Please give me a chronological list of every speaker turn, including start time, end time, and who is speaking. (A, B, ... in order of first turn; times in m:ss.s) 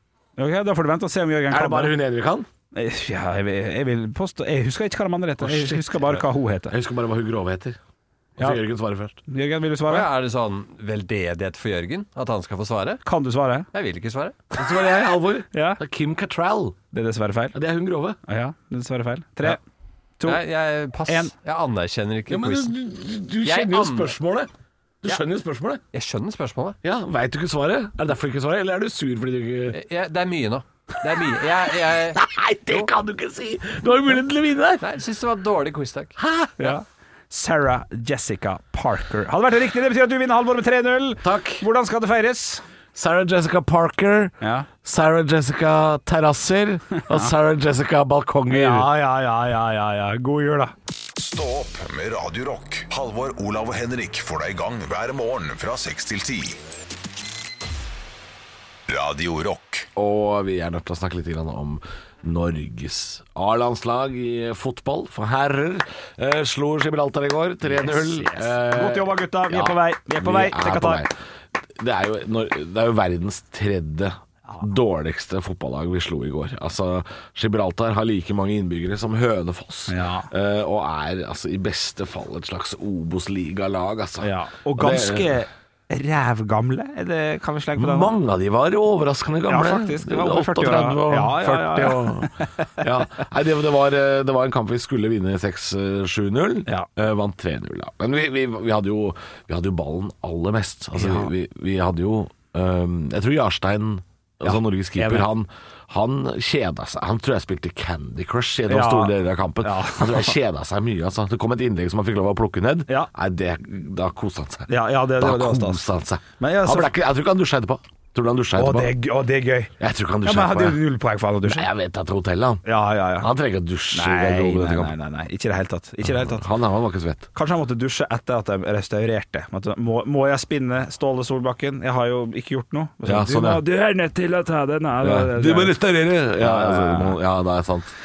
0:00.4-0:02.0 A
0:01.5-0:02.5 B
0:02.7-0:06.7 A
0:05.4-0:07.8 B
0:08.4-0:09.2 B
0:09.3-0:10.1 A
0:09.9-0:13.0 C
0:13.0-0:13.7 A
0:13.7-0:14.4 C
0:14.6-0:16.8 B
0:15.5-0:15.8 A
0:16.9-0:17.6 A
0:17.5-0:18.2 B
0:18.2-0:19.6 A
0:20.2-0:22.7 C
0:21.1-0:21.3 A
0:22.3-0:24.5 B
0:23.4-0:24.1 C
0:25.0-0:25.8 B
0:25.9-0:26.8 C
0:26.8-0:29.8 B
0:29.7-0:32.9 C
0:31.9-0:34.8 B
0:34.8-0:36.1 C
0:36.2-0:36.7 B
0:36.6-0:42.6 A
0:41.2-0:41.6 B
0:42.9-0:48.9 B
0:44.4-0:44.7 A
0:48.5-0:50.7 A
0:51.2-0:56.6 D
0:58.9-0:59.9 D
1:00.0-1:11.1 B
1:07.6-1:11.0 A
1:11.8-1:25.4 B
1:19.9-1:20.3 A
1:24.2-1:28.1 A
1:27.8-1:58.9 B
1:29.5-1:32.9 A
1:41.0-1:41.3 A
1:44.4-1:45.3 A
1:48.7-1:50.4 A
1:54.7-1:56.9 A
1:58.5-1:59.7 A
1:59.8-2:00.8 B
2:00.2-2:01.7 A
2:01.4-2:02.6 B
2:02.6-2:03.3 A
2:03.2-2:04.9 B
2:03.9-2:06.5 A
2:06.0-2:07.3 B
2:07.3-2:15.8 A
2:13.0-2:13.6 B
2:15.0-2:17.9 B
2:16.3-2:17.2 A